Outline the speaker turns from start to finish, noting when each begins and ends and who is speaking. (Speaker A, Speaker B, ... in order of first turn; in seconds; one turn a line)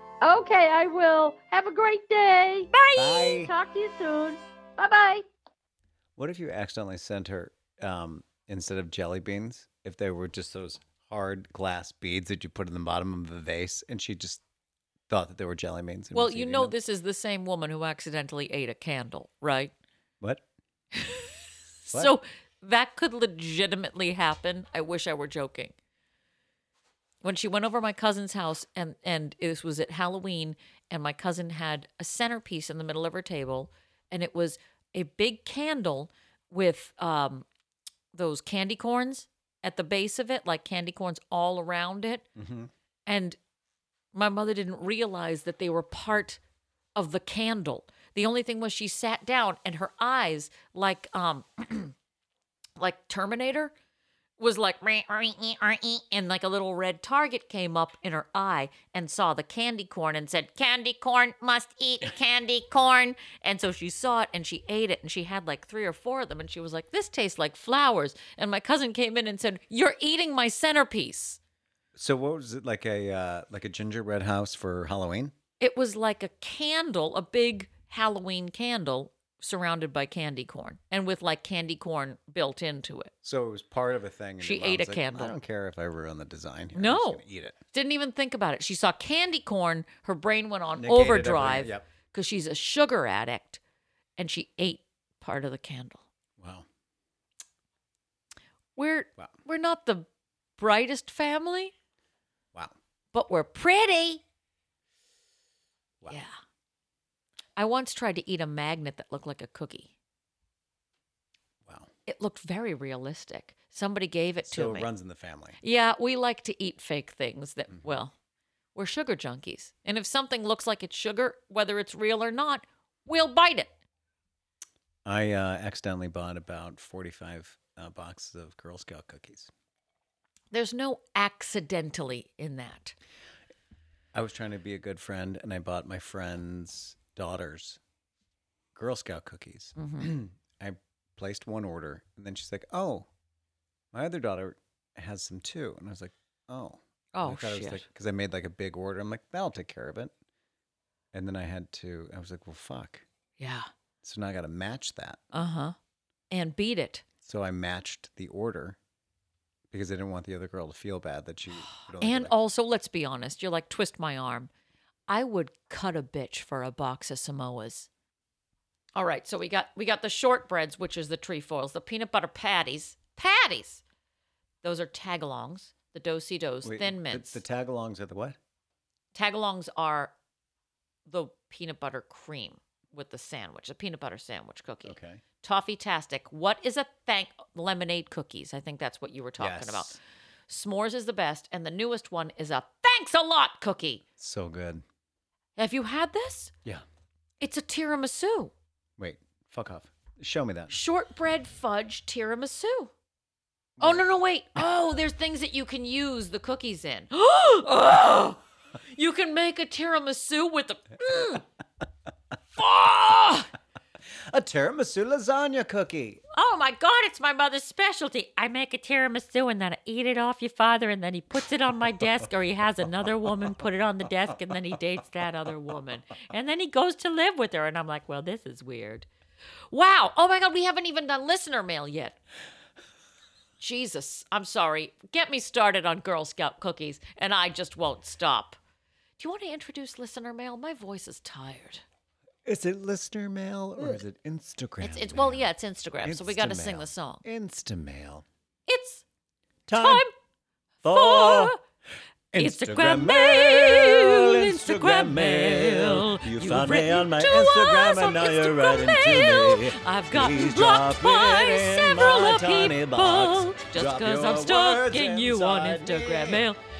Speaker A: 0.2-2.7
Speaker B: 2.7-3.3
Speaker C: 3.0-3.5
Speaker A: 3.2-5.2
Speaker C: 6.2-14.4
Speaker C: 15.1-16.7
Speaker B: 16.1-19.7
Speaker B: 21.0-21.2
Speaker B: 21.9-25.7
Speaker B: 27.2-37.5
Speaker B: 38.1-42.3
Speaker C: 42.4-42.7
Speaker B: 43.0-43.4
Speaker B: 44.1-46.4
Speaker B: 46.9-51.9
Speaker B: 52.8-53.7
Speaker B: 54.4-71.4
Speaker C: 72.0-75.3
Speaker B: 75.6-83.1
Speaker C: 83.2-87.5
Speaker B: 84.4-85.4
Speaker B: 86.7-87.2
Speaker B: 87.7-93.6
Speaker C: 90.8-91.8
Speaker B: 94.2-96.0
Speaker C: 96.4-96.7
Speaker B: 98.8-100.1
Speaker B: 100.6-101.7
Speaker B: 103.1-104.2
Speaker B: 106.1-106.3
Speaker B: 107.6-109.9
Speaker B: 112.0-114.9
Speaker C: 114.4-115.6
Speaker B: 115.6-118.1
Speaker B: 118.7-123.7
Speaker C: 125.0-129.5
Speaker B: 130.5-132.9
Speaker C: 134.1-137.8
Speaker C: 138.7-143.1
Speaker B: 139.8-140.1
Speaker C: 143.9-150.1
Speaker B: 147.1-147.8
Speaker C: 151.1-153.0
Speaker B: 153.4-153.7
Speaker C: 154.0-155.2
Speaker B: 155.3-155.8
Speaker B: 156.3-157.0
Speaker C: 157.2-158.8
Speaker C: 159.7-162.3
Speaker B: 162.0-164.5
Speaker B: 165.1-167.9
Speaker B: 168.9-173.8
Speaker B: 174.6-177.4
Speaker C: 176.6-178.4
Speaker B: 179.1-180.1
Speaker B: 181.1-194.0
Speaker C: 184.8-185.2
Speaker C: 189.4-190.0
Speaker C: 194.2-194.8
Speaker B: 195.6-196.5
Speaker B: 197.4-198.5
Speaker C: 199.0-200.7
Speaker B: 200.7-202.9
Speaker B: 203.8-208.4
Speaker B: 208.9-211.4
Speaker B: 212.5-213.5
Speaker C: 214.3-216.2
Speaker B: 216.3-229.1
Speaker B: 229.7-232.2
Speaker B: 233.6-238.6
Speaker B: 239.2-241.8
Speaker C: 242.4-245.4
Speaker B: 244.8-247.2
Speaker C: 246.0-248.2
Speaker B: 248.7-249.0
Speaker C: 249.7-250.1
Speaker B: 249.7-250.1
Speaker C: 250.8-251.5
Speaker B: 250.9-251.6
Speaker C: 252.3-266.5
Speaker B: 252.3-266.6